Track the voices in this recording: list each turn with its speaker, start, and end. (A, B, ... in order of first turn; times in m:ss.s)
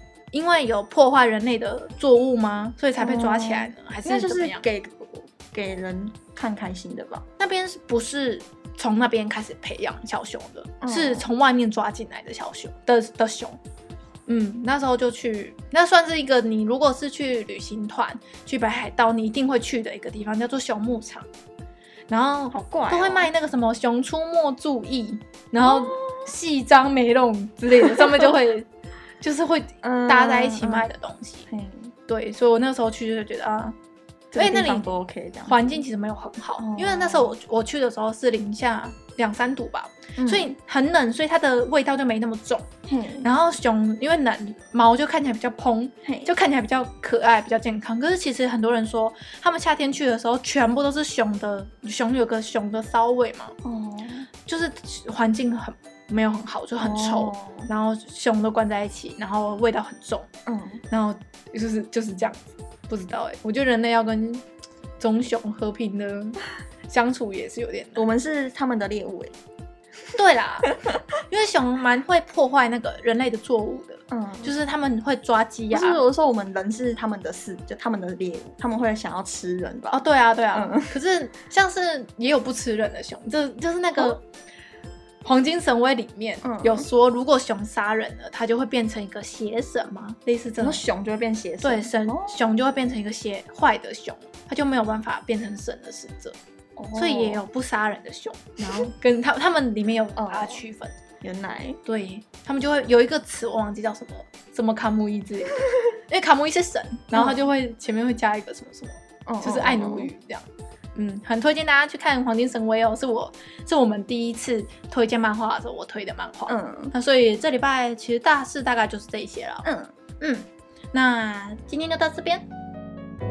0:00.3-0:04.6 A
0:03.0-0:07.2 B
0:07.4-0:13.6 A
0:10.8-0:11.3 B
0:14.3-0:21.3 A
0:22.1-0:28.7 A
0:22.5-0:23.3 B
0:25.6-0:26.3 B
0:27.8-0:28.2 B
0:29.2-0:31.5 A
0:29.8-0:30.9 B
0:31.5-0:31.9 B
0:32.1-0:33.7 A
0:34.3-0:35.8 B
0:34.3-0:34.9 A
0:35.4-0:42.7 A
0:36.6-0:37.4 B
0:40.2-0:40.5 B
0:42.9-0:43.3 B
0:43.2-0:53.5 A
0:46.0-0:46.3 B
0:53.6-0:54.3 B
0:54.5-1:00.3 A
0:56.8-0:57.7 B
1:00.4-1:00.8 B
1:00.9-1:04.4 A
1:05.0-1:08.1 A
1:08.0-1:09.3 B
1:10.1-1:16.0 A
1:14.1-1:14.5 B
1:15.7-1:21.0 B
1:19.9-1:24.2 A
1:25.2-1:30.8 A
1:26.4-1:26.9 B
1:30.6-1:32.4 B
1:31.6-1:36.4 A
1:36.8-1:37.4 B
1:36.9-1:40.9 A
1:40.2-1:40.6 B
1:41.2-1:41.8 B
1:41.8-1:59.7 A
1:47.1-1:47.4 B
1:49.2-1:50.1 B
1:56.5-1:56.9 B
1:59.6-1:59.9 B
2:00.2-2:02.4 A